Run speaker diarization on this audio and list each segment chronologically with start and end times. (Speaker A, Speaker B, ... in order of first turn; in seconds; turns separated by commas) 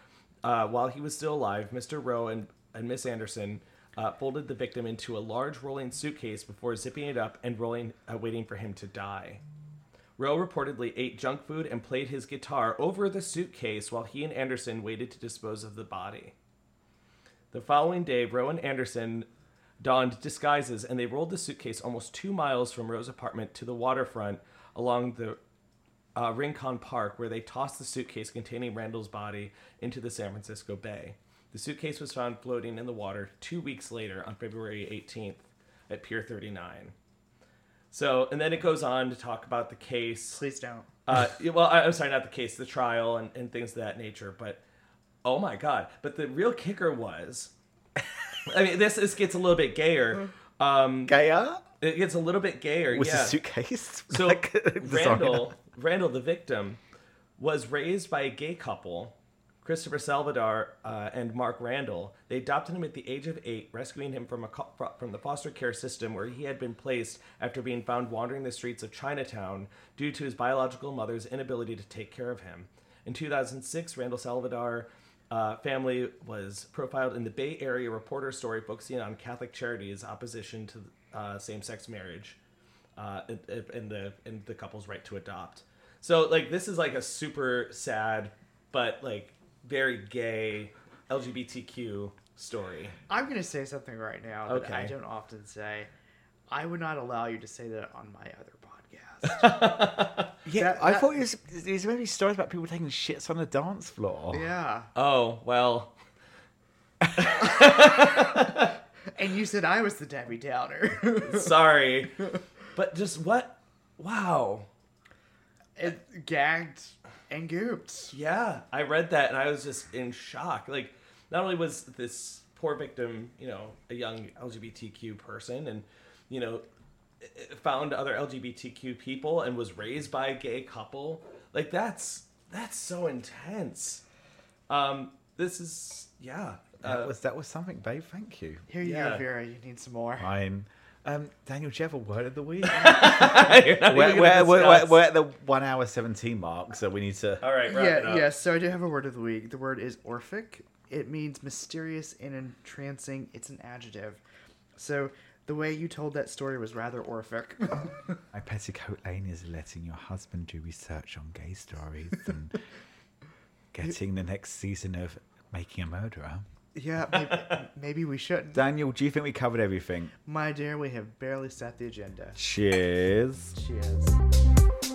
Speaker A: 0.4-9.4, Speaker A: 10.2-16.3, Speaker A: 17.5-19.3, Speaker A: 19.8-25.4, Speaker A: 26.1-36.9, Speaker A: 37.9-40.4, Speaker B: 40.3-40.9, Speaker A: 41.1-44.6, Speaker A: 45.2-47.5, Speaker A: 48.5-51.1, Speaker C: 51.0-51.6, Speaker A: 51.8-53.4, Speaker C: 52.9-55.5, Speaker A: 54.1-56.8, Speaker A: 57.4-82.4, Speaker A: 83.0-93.0, Speaker B: 93.1-95.9, Speaker A: 94.5-94.9, Speaker B: 96.5-99.9, Speaker A: 99.2-100.3, Speaker C: 100.4-104.4, Speaker B: 100.5-101.1, Speaker B: 104.3-104.9, Speaker A: 104.9-105.9, Speaker A: 107.2-108.7, Speaker B: 109.2-111.5, Speaker A: 111.1-114.7, Speaker B: 115.8-118.1, Speaker A: 118.1-126.6, Speaker A: 127.2-134.0, Speaker A: 134.7-137.1, Speaker C: 136.8-138.7, Speaker B: 138.7-140.3, Speaker A: 138.8-139.2, Speaker C: 140.2-147.4, Speaker A: 142.6-145.0, Speaker A: 147.4-148.3, Speaker B: 147.7-154.2, Speaker B: 154.8-158.0, Speaker C: 158.3-162.6, Speaker C: 163.7-166.4, Speaker B: 166.7-168.6, Speaker A: 167.2-167.6, Speaker C: 168.5-170.1, Speaker B: 170.2-172.4, Speaker C: 172.3-173.5, Speaker B: 173.5-174.2